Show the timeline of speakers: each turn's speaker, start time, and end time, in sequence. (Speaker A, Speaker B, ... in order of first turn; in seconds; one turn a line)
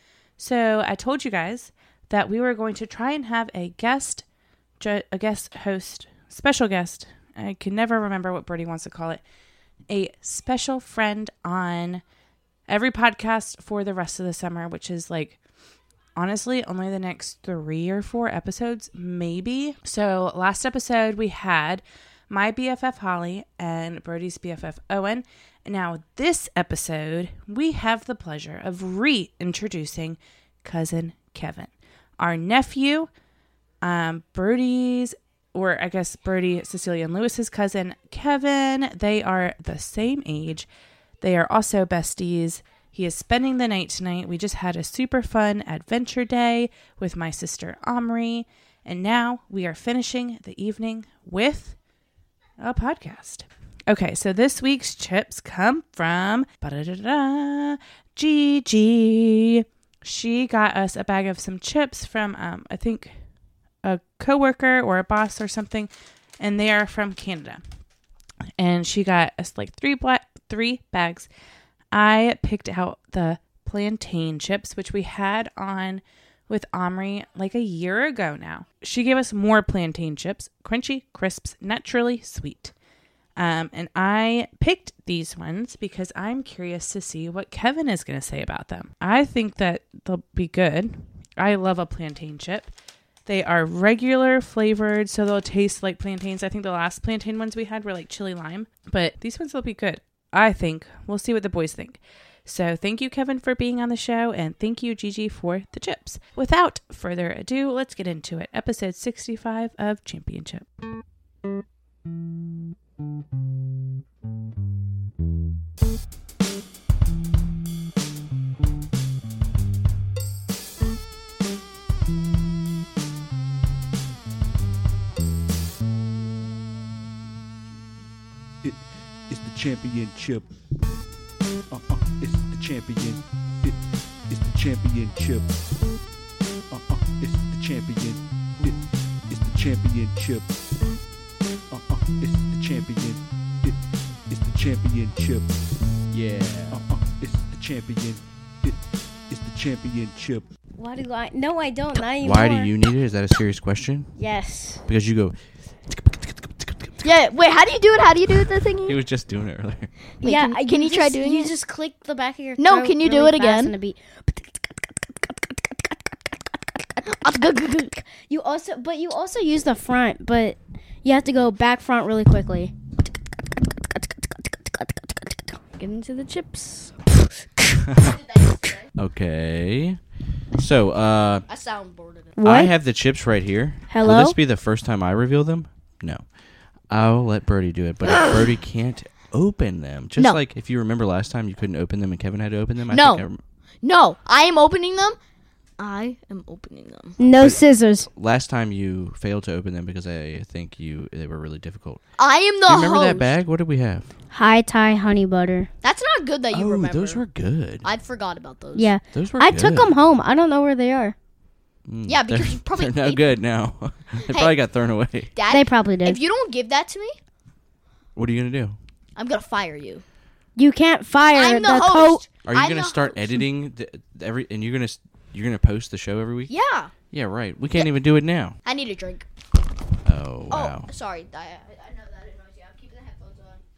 Speaker A: 0.4-4.2
Speaker A: 4.8-9.2
Speaker A: 9.9-12.0
Speaker A: 12.7-15.4
Speaker A: 16.1-33.1
Speaker A: 33.8-40.7
Speaker A: 41.2-51.8
Speaker A: 52.6-63.1
Speaker A: 63.8-67.6
Speaker A: 68.6-71.3
Speaker A: 71.9-82.7
Speaker A: 83.3-92.7
Speaker A: 93.2-110.6
Speaker B: 128.6-130.5
Speaker B: 131.7-135.6
Speaker B: 136.7-140.5
Speaker B: 141.7-145.6
Speaker C: 146.1-146.8
Speaker B: 146.7-148.8
Speaker B: 149.3-150.5
Speaker D: 150.7-152.7
Speaker C: 152.2-154.1
Speaker D: 154.2-154.8
Speaker C: 154.9-155.3
Speaker C: 155.9-157.0
Speaker E: 157.0-159.0
Speaker C: 158.8-159.9
Speaker E: 160.2-161.5
Speaker D: 160.2-164.5
Speaker E: 162.6-163.7
Speaker D: 165.2-165.6
Speaker E: 167.1-167.9
Speaker D: 168.0-172.7
Speaker D: 173.9-177.3
Speaker C: 177.9-178.2
Speaker E: 177.9-178.9
Speaker C: 178.9-180.0
Speaker C: 180.6-181.4
Speaker E: 181.5-182.3
Speaker D: 182.4-182.7
Speaker C: 182.4-186.2
Speaker D: 183.9-184.3
Speaker C: 186.9-193.4
Speaker E: 188.1-188.3
Speaker E: 192.9-193.3
Speaker E: 193.8-195.2
Speaker E: 195.8-197.2
Speaker D: 197.2-198.1
Speaker C: 197.4-197.6
Speaker C: 198.1-202.0
Speaker E: 202.2-203.4
Speaker C: 202.7-204.1
Speaker D: 204.3-205.7
Speaker E: 205.8-207.2
Speaker C: 206.5-207.8
Speaker E: 207.8-208.9
Speaker D: 208.8-211.1
Speaker C: 209.1-209.9
Speaker C: 211.9-215.3
Speaker E: 212.1-213.3
Speaker E: 214.2-214.5
Speaker E: 215.3-217.2
Speaker D: 215.5-216.2
Speaker C: 218.1-218.8
Speaker E: 219.2-220.0
Speaker D: 220.6-222.2
Speaker E: 221.3-223.4
Speaker C: 222.4-226.5
Speaker E: 226.5-226.9
Speaker C: 227.1-228.6
Speaker E: 228.6-229.3
Speaker C: 230.0-230.9
Speaker E: 230.5-233.6